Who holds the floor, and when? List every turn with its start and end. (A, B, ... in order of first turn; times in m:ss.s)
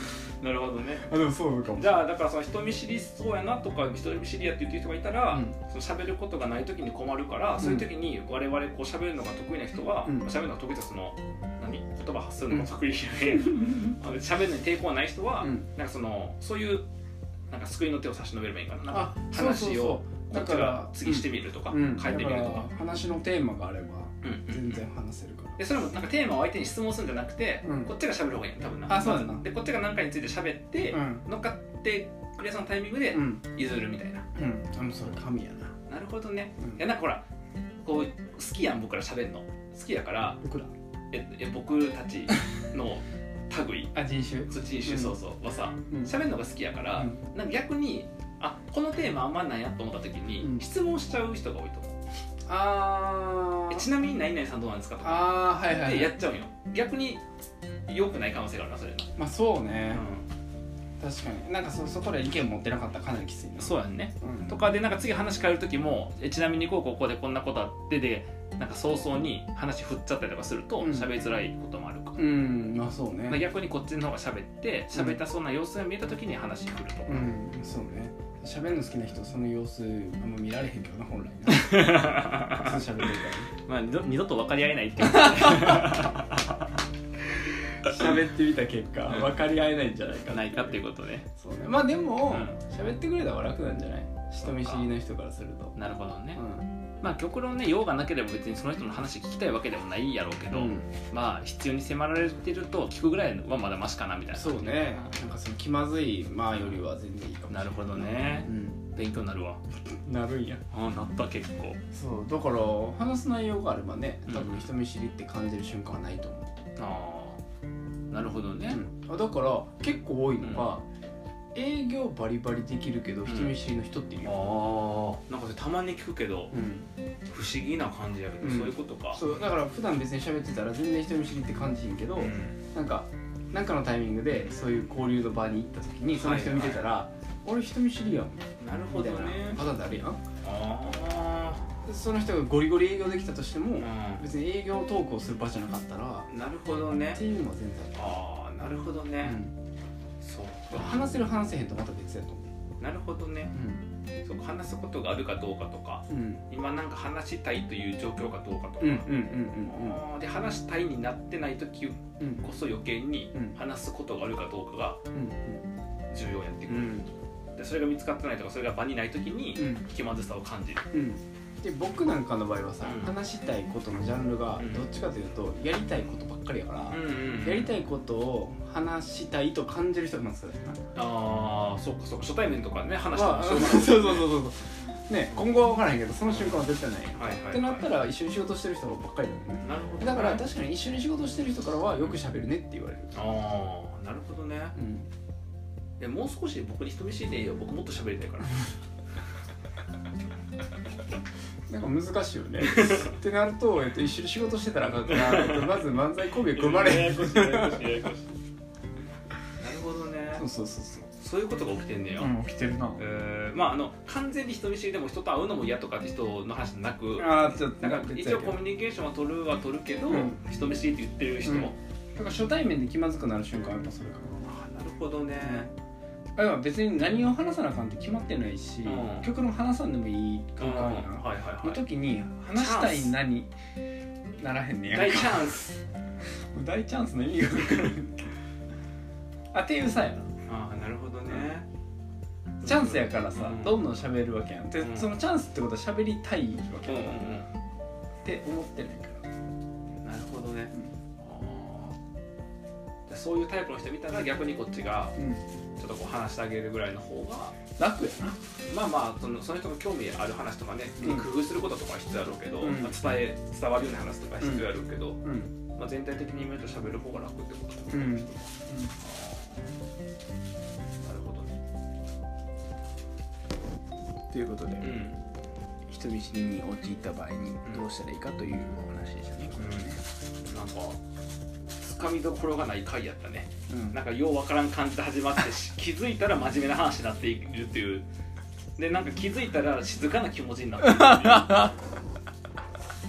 0:00.4-0:01.1 A
0:01.0-0:02.0 B
0:01.7-0:16.8 A
0:05.3-0:05.6 B
0:07.6-0:07.9 B
0:10.0-0:10.3 B
0:15.4-0:15.7 B
0:17.5-0:22.7 A
0:18.9-0:25.6 B
0:24.2-0:24.8 A
0:25.6-0:34.2 A
0:27.6-0:27.9 B
0:28.9-0:29.5 B
0:30.9-0:31.3 B
0:33.1-0:33.4 B
0:34.3-0:35.7 B
0:35.9-0:37.2 A
0:37.8-0:40.4 A
0:40.4-0:40.7 B
0:41.1-0:44.0 A
0:43.9-0:45.2 B
0:44.5-0:51.9 A
0:47.0-0:47.2 B
0:50.4-0:50.6 B
0:52.5-0:53.9 B
0:53.7-0:57.2 A
0:55.0-0:56.1 B
0:57.9-0:59.1 A
0:59.2-1:00.0 B
0:59.9-1:00.2 A
1:01.0-1:04.6 B
1:03.6-1:12.2 A
1:10.8-1:11.1 B
1:12.2-1:13.4 B
1:13.3-1:17.3 A
1:17.1-1:23.5 B
1:21.5-1:22.8 A
1:23.6-1:26.5 A
1:27.8-1:30.8 B
1:30.3-1:31.3 A
1:31.3-1:35.8 B
1:32.2-1:32.6 A
1:34.4-1:34.9 A
1:35.8-1:36.4 A
1:36.3-1:36.6 B
1:37.0-1:45.2 A
1:40.5-1:40.9 B
1:44.3-1:48.8 B
1:46.5-1:46.8 A
1:47.5-1:49.6 A
1:49.8-1:50.6 B
1:50.7-1:51.8 A
1:51.9-1:56.5 B
1:54.3-1:54.7 A
1:56.8-1:57.4 A
1:58.1-1:58.8 A
1:58.7-2:00.8 B
2:00.4-2:00.7 A
2:01.5-2:04.4 B
2:03.3-2:03.6 A
2:04.2-2:06.5 A
2:06.5-2:06.8 B
2:07.3-2:09.2 A
2:08.4-2:20.2 B
2:12.2-2:12.6 A
2:16.1-2:16.9 A
2:18.6-2:19.6 A
2:20.4-2:21.6 A
2:21.8-2:26.3 B
2:23.8-2:24.2 A
2:26.3-2:27.2 A
2:27.1-2:28.0 B
2:27.9-2:29.4 A
2:29.2-2:29.5 B
2:30.2-2:31.0 A
2:30.7-2:32.5 B
2:32.8-2:33.5 A
2:33.5-2:33.8 B
2:34.2-2:45.0 A
2:36.1-2:36.4 B
2:38.8-2:40.0 B
2:42.2-2:42.4 B
2:45.1-2:45.6 B
2:46.1-2:47.0 A
2:46.7-2:47.1 B
2:47.6-2:50.9 A
2:49.6-2:49.8 B
2:50.9-3:00.8 B
2:52.8-2:53.1 A
2:54.6-2:54.8 A
2:56.9-2:57.8 A
3:00.9-3:04.4 A
3:03.1-3:13.2 B
3:06.3-3:06.6 A
3:07.1-3:07.9 A
3:09.6-3:10.4 A
3:13.1-3:14.8 A
3:14.8-3:15.0 B
3:16.0-3:18.7 A
3:21.7-3:28.1 B
3:22.7-3:23.0 A
3:25.1-3:25.8 A
3:26.4-3:28.3 A
3:29.6-3:30.4 A
3:30.3-3:31.1 B
3:31.2-3:32.3 A
3:32.2-3:33.0 B
3:33.0-3:41.8 A
3:37.2-3:38.6 B
3:40.1-3:40.4 B
3:41.4-3:44.5 B
3:44.4-3:45.7 A
3:45.4-3:45.7 B
3:46.4-3:53.5 B
3:48.8-3:49.3 A
3:50.6-3:51.8 A
3:52.4-3:53.1 A
3:54.4-3:55.6 B
3:54.9-3:55.8 A
3:56.5-3:58.3 B
3:59.5-4:00.3 B
4:00.5-4:01.7 A
4:01.3-4:01.5 B
4:02.6-4:07.4 B
4:02.6-4:03.8 A
4:04.8-4:05.2 A
4:06.9-4:07.5 A
4:08.2-4:09.2 B
4:10.0-4:12.0 A
4:13.1-4:15.2 A
4:15.2-4:15.4 B
4:15.8-4:17.5 A
4:17.8-4:18.4 B
4:18.7-4:29.7 A
4:21.0-4:21.3 B
4:22.6-4:22.9 B
4:24.4-4:24.7 B
4:25.2-4:25.5 B
4:27.9-4:28.9 B
4:31.0-4:31.5 A
4:34.3-4:35.0 B
4:34.8-4:35.2 A
4:35.9-4:40.0 B
4:39.6-4:41.0 A
4:41.8-4:48.0 A
4:43.7-4:44.0 B
4:48.8-4:51.7 A
4:50.8-4:51.7 B